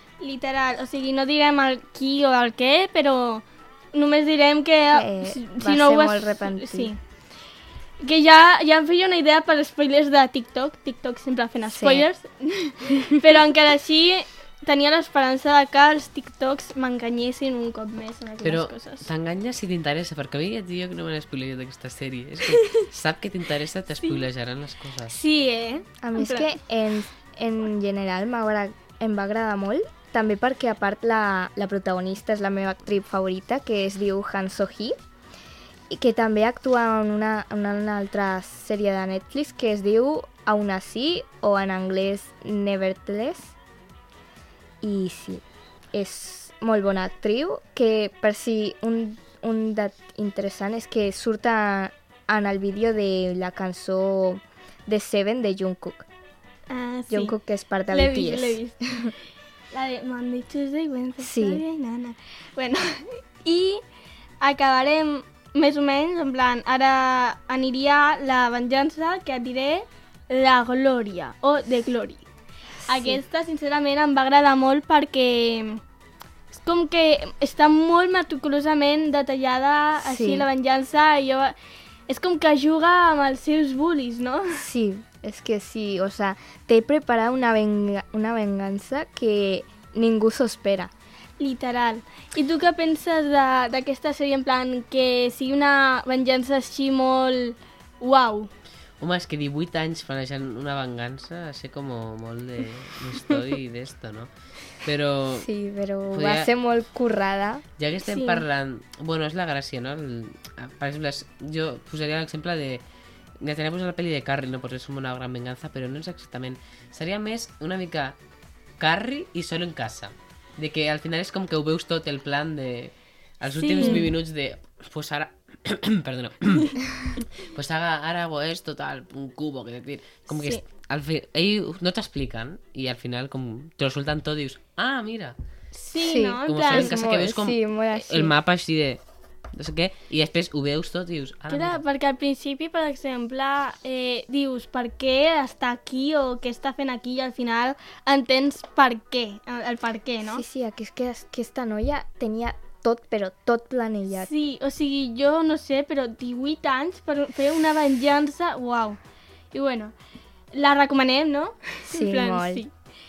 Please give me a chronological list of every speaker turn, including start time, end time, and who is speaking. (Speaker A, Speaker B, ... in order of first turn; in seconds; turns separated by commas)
Speaker A: 0.2-7.0, Speaker B: 4.9-6.9, Speaker A: 8.0-19.1, Speaker B: 11.7-12.1, Speaker C: 18.4-25.1, Speaker A: 22.5-22.9, Speaker A: 25.1-26.5, Speaker B: 26.0-34.9, Speaker B: 35.9-43.5, Speaker B: 44.8-56.0, Speaker A: 56.7-57.3, Speaker B: 57.1-59.1, Speaker A: 57.9-59.1, Speaker A: 59.7-63.8, Speaker B: 61.2-61.6, Speaker A: 64.4-72.2, Speaker B: 72.8-73.2, Speaker A: 72.8-75.8, Speaker A: 76.5-81.5, Speaker B: 80.0-80.5, Speaker A: 82.1-84.6, Speaker B: 84.5-90.9, Speaker A: 91.4-98.5, Speaker C: 99.0-105.5, Speaker B: 105.4-107.7, Speaker C: 106.1-106.5, Speaker C: 107.8-112.8, Speaker A: 108.0-108.4, Speaker C: 113.4-118.2, Speaker C: 118.8-126.8, Speaker A: 123.6-124.1, Speaker B: 123.8-124.1, Speaker C: 127.4-135.3, Speaker A: 130.3-130.6, Speaker A: 135.7-136.9, Speaker B: 135.9-138.3, Speaker C: 136.4-139.0, Speaker C: 139.5-141.8, Speaker A: 141.5-150.4, Speaker B: 150.3-154.3, Speaker A: 154.1-159.0, Speaker A: 159.5-159.9, Speaker A: 160.5-162.7, Speaker B: 161.9-162.6